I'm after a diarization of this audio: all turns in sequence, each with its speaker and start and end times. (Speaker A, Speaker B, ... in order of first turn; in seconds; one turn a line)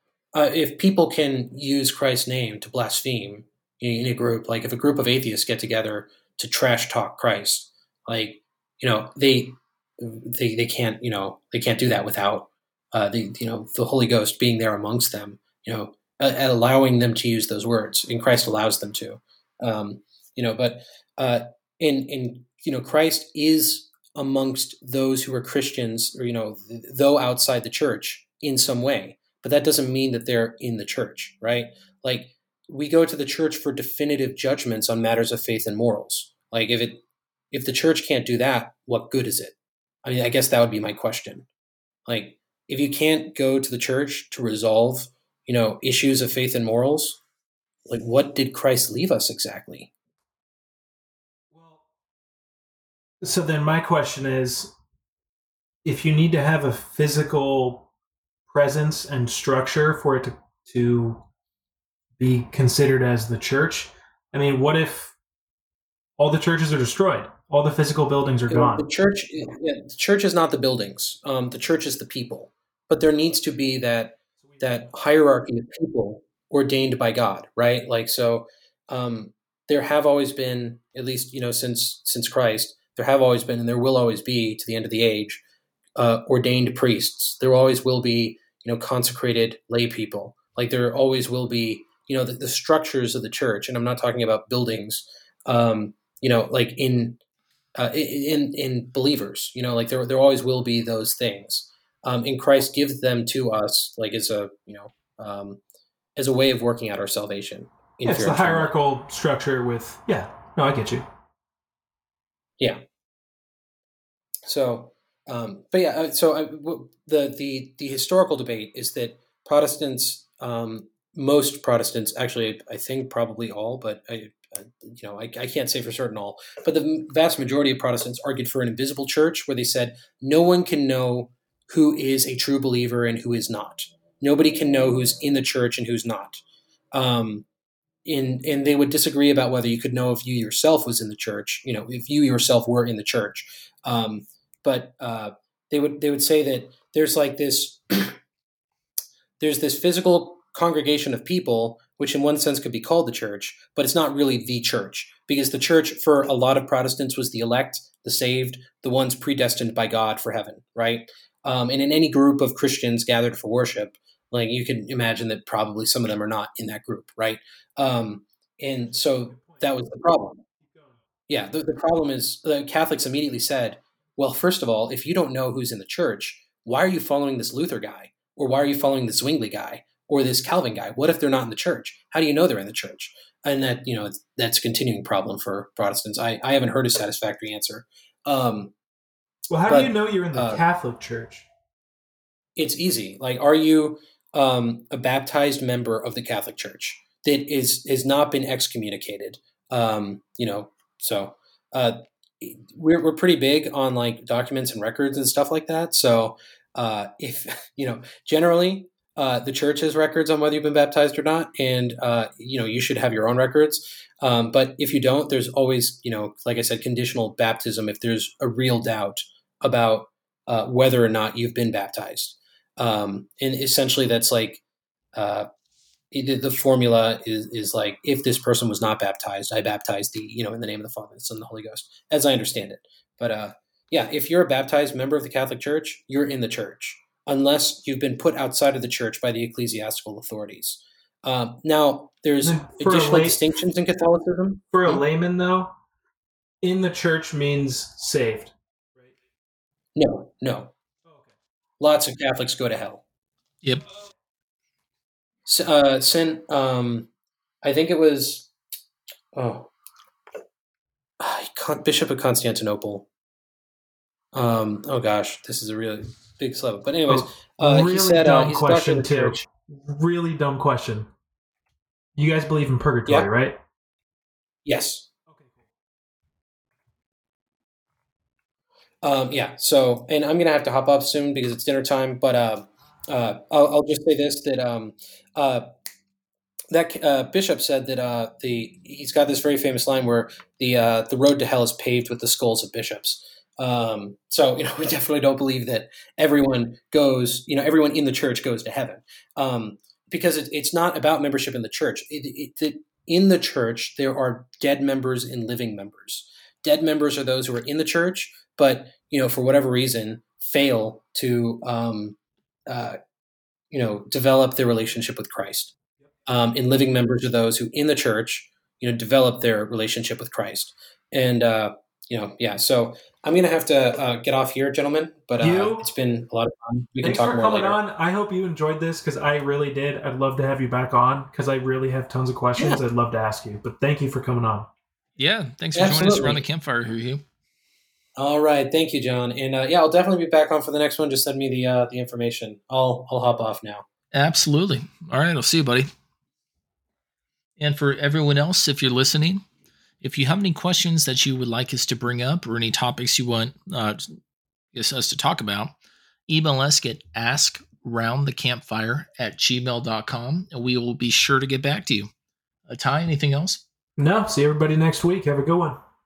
Speaker A: 0.3-41.5
Speaker A: 42.1-47.2
Speaker A: 47.9-49.9
Speaker B: 51.5-51.9
Speaker B: 53.2-54.7
Speaker B: 55.8-57.9
Speaker B: 58.5-61.2
Speaker B: 62.2-65.2
Speaker B: 66.2-68.8
Speaker A: 68.5-85.4
Speaker B: 74.4-74.8
Speaker A: 86.0-97.2
Speaker A: 97.8-105.6
Speaker A: 106.2-108.7
Speaker B: 108.0-111.1
Speaker A: 114.5-137.4
Speaker A: 138.0-148.2
Speaker A: 149.4-170.4
Speaker B: 168.9-169.7
Speaker B: 170.6-171.0
Speaker A: 171.3-188.7
Speaker B: 189.5-191.5
Speaker A: 189.7-190.6
Speaker A: 192.6-224.6
Speaker A: 225.1-225.5
Speaker A: 226.1-245.0
Speaker B: 242.4-243.4
Speaker B: 244.7-245.7
Speaker B: 246.6-249.2
Speaker A: 249.9-250.7
Speaker B: 251.0-251.3
Speaker A: 251.8-253.0
Speaker A: 255.4-257.1
Speaker A: 257.6-258.5
Speaker A: 259.3-259.7
Speaker A: 261.2-263.1
Speaker A: 264.3-269.4
Speaker B: 267.1-271.1
Speaker B: 272.2-273.6
Speaker A: 274.6-275.1
Speaker B: 275.3-275.7
Speaker A: 279.0-285.6
Speaker A: 286.7-312.9
Speaker A: 313.7-315.7
Speaker A: 316.2-327.8
Speaker B: 325.4-325.9
Speaker B: 327.0-334.7
Speaker C: 335.2-337.2
Speaker A: 335.7-336.4
Speaker A: 338.1-343.8
Speaker C: 344.1-345.9
Speaker C: 347.6-349.4
Speaker C: 350.0-354.2
Speaker C: 354.7-355.7
Speaker C: 356.3-362.1
Speaker C: 362.7-363.6
Speaker B: 364.0-365.8